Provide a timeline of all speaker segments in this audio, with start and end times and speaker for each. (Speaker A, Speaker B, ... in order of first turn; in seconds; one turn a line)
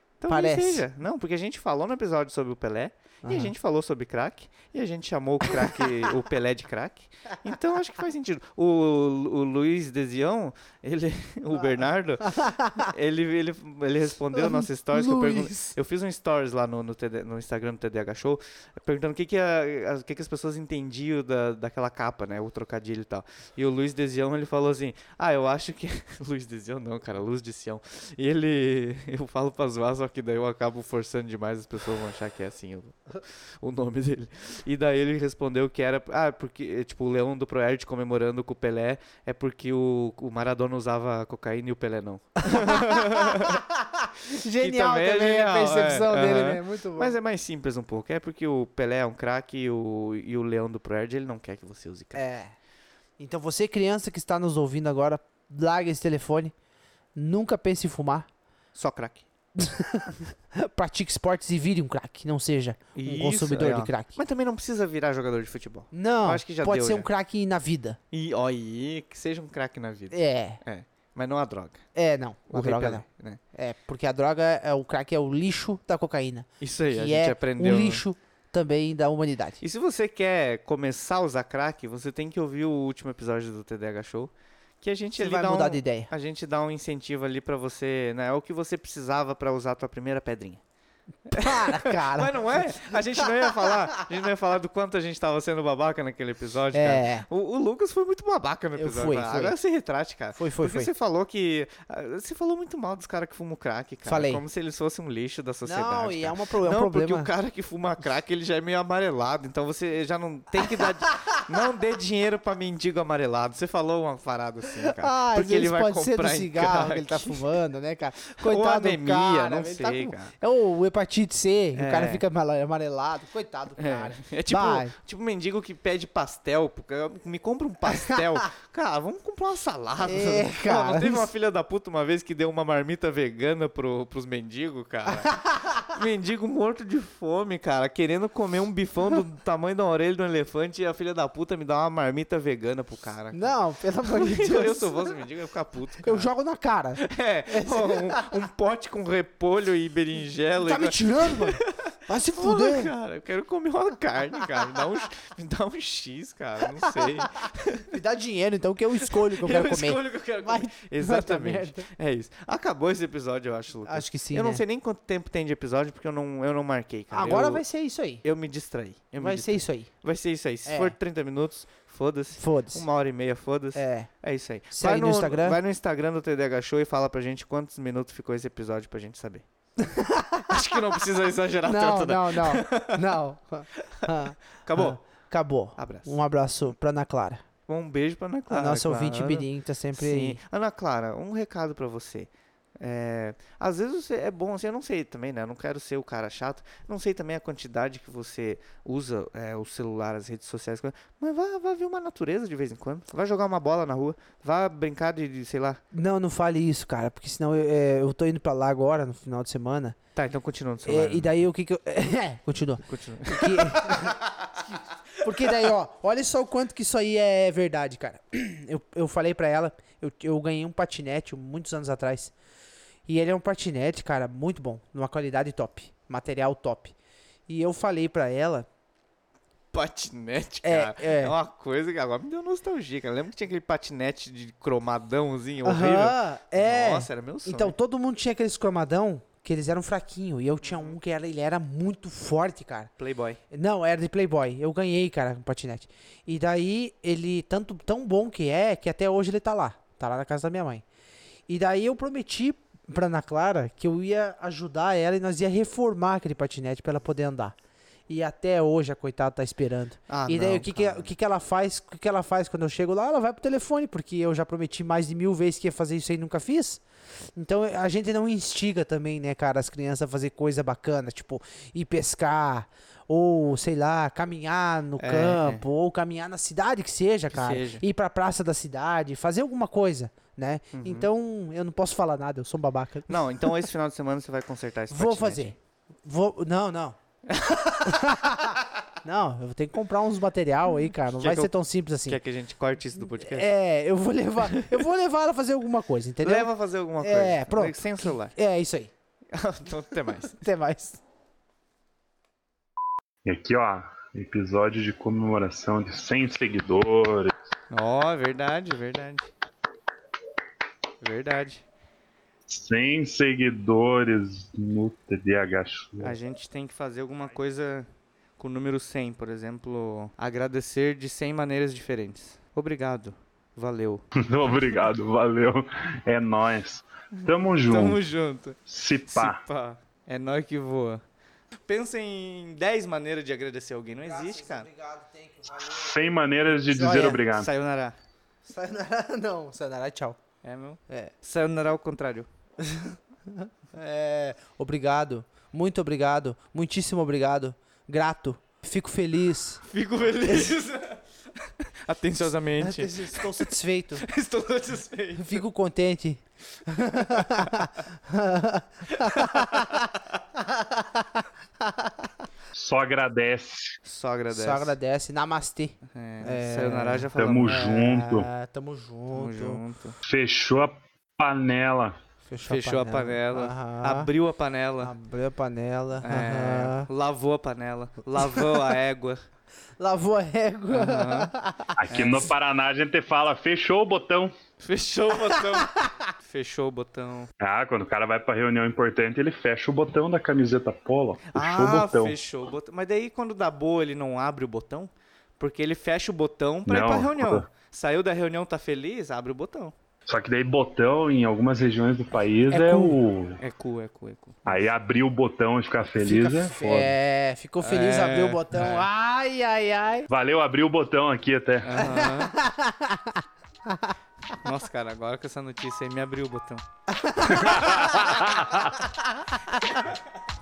Speaker A: 0.2-43.6
Speaker B: 0.3-0.8
Speaker B: 3.2-3.5
Speaker B: 12.2-12.8
Speaker B: 14.3-15.7
Speaker B: 42.5-47.1
Speaker A: 44.5-52.2
Speaker B: 52.1-52.5
Speaker B: 53.2-56.5
Speaker B: 57.1-58.3
Speaker A: 58.7-59.2
Speaker B: 59.6-64.2
Speaker A: 63.0-67.1
Speaker B: 65.9-68.0
Speaker A: 68.1-71.8
Speaker B: 70.1-70.6
Speaker B: 71.9-79.6
Speaker A: 72.5-73.4
Speaker A: 76.6-78.0
Speaker A: 79.6-90.6
Speaker B: 85.2-86.1
Speaker A: 91.3-117.4
Speaker B: 91.3-93.5
Speaker B: 96.7-97.3
Speaker B: 98.8-99.6
Speaker B: 100.3-100.9
Speaker B: 104.0-104.4
Speaker B: 105.6-107.3
Speaker B: 114.8-124.9
Speaker A: 118.4-120.3
Speaker A: 121.7-122.2
Speaker A: 123.8-135.3
Speaker B: 130.0-131.3
Speaker B: 135.1-135.8
Speaker A: 135.8-143.5
Speaker B: 143.3-145.1
Speaker A: 144.1-146.3
Speaker B: 146.0-148.2
Speaker A: 147.0-157.9
Speaker B: 150.7-152.9
Speaker B: 156.8-157.2
Speaker B: 157.9-161.8
Speaker A: 159.1-167.6
Speaker B: 163.8-164.6
Speaker B: 167.1-168.2
Speaker A: 168.2-179.4
Speaker B: 169.2-169.9
Speaker B: 170.7-170.9
Speaker B: 172.4-172.8
Speaker B: 173.7-174.1
Speaker B: 174.7-175.6
Speaker B: 179.8-180.6
Speaker A: 180.5-183.0
Speaker B: 181.6-187.4
Speaker A: 183.8-185.0
Speaker A: 185.8-186.2
Speaker A: 187.7-205.8
Speaker B: 188.5-190.4
Speaker B: 205.9-210.0
Speaker A: 210.1-211.3
Speaker B: 210.8-222.3
Speaker A: 212.8-214.1
Speaker B: 223.1-226.9
Speaker B: 227.5-228.7
Speaker A: 229.7-237.7
Speaker B: 230.6-231.3
Speaker B: 235.6-242.9
Speaker A: 240.6-240.9
Speaker A: 243.0-243.4
Speaker B: 243.5-250.8
Speaker B: 251.5-257.6
Speaker B: 258.1-283.6
Speaker A: 260.1-261.1
Speaker A: 275.0-275.6
Speaker A: 277.3-277.8
Speaker A: 280.7-281.1
Speaker A: 283.1-285.5
Speaker B: 284.9-287.0
Speaker A: 287.3-287.9
Speaker B: 287.8-292.2
Speaker A: 291.2-291.5
Speaker A: 292.1-293.5
Speaker B: 293.0-298.9
Speaker A: 296.2-298.3
Speaker A: 299.3-300.4
Speaker B: 300.4-301.0
Speaker C: 303.2-307.3
Speaker A: 307.7-309.3
Speaker A: 311.0-311.6
Speaker C: 312.5-316.1
Speaker A: 316.0-317.9
Speaker A: 318.4-324.0
Speaker C: 324.2-328.0
Speaker A: 327.1-331.0
Speaker C: 328.7-329.4
Speaker A: 331.7-334.7
Speaker B: 334.0-337.2
Speaker C: 335.6-337.5
Speaker A: 337.3-338.0
Speaker B: 338.4-340.2
Speaker A: 340.4-342.3
Speaker B: 342.6-349.6
Speaker A: 349.6-353.5
Speaker B: 350.2-350.6
Speaker B: 352.6-354.0
Speaker A: 354.0-355.4
Speaker B: 355.2-362.1
Speaker A: 357.1-357.6
Speaker A: 358.9-360.2
Speaker C: 362.5-363.7
Speaker A: 363.8-364.7
Speaker B: 364.3-369.6
Speaker A: 365.9-367.6
Speaker C: 367.2-368.3
Speaker A: 369.1-370.0
Speaker C: 370.0-371.9
Speaker B: 372.2-374.1
Speaker A: 372.4-374.9
Speaker B: 374.8-376.9
Speaker A: 376.0-379.2
Speaker B: 378.2-378.6
Speaker B: 379.8-381.8
Speaker A: 380.7-381.3
Speaker C: 381.8-384.3
Speaker A: 381.9-382.3
Speaker A: 384.6-387.3
Speaker B: 385.3-385.9
Speaker C: 387.4-392.1
Speaker A: 391.3-399.7
Speaker C: 396.7-397.4
Speaker C: 400.1-403.4
Speaker B: 402.5-403.0
Speaker A: 403.4-404.4
Speaker C: 404.4-406.9
Speaker B: 406.0-410.1
Speaker A: 407.6-408.9
Speaker C: 410.1-411.8
Speaker A: 411.6-412.3
Speaker B: 411.8-413.9
Speaker A: 414.4-416.6
Speaker B: 416.9-418.4
Speaker C: 417.3-418.8
Speaker B: 419.0-419.8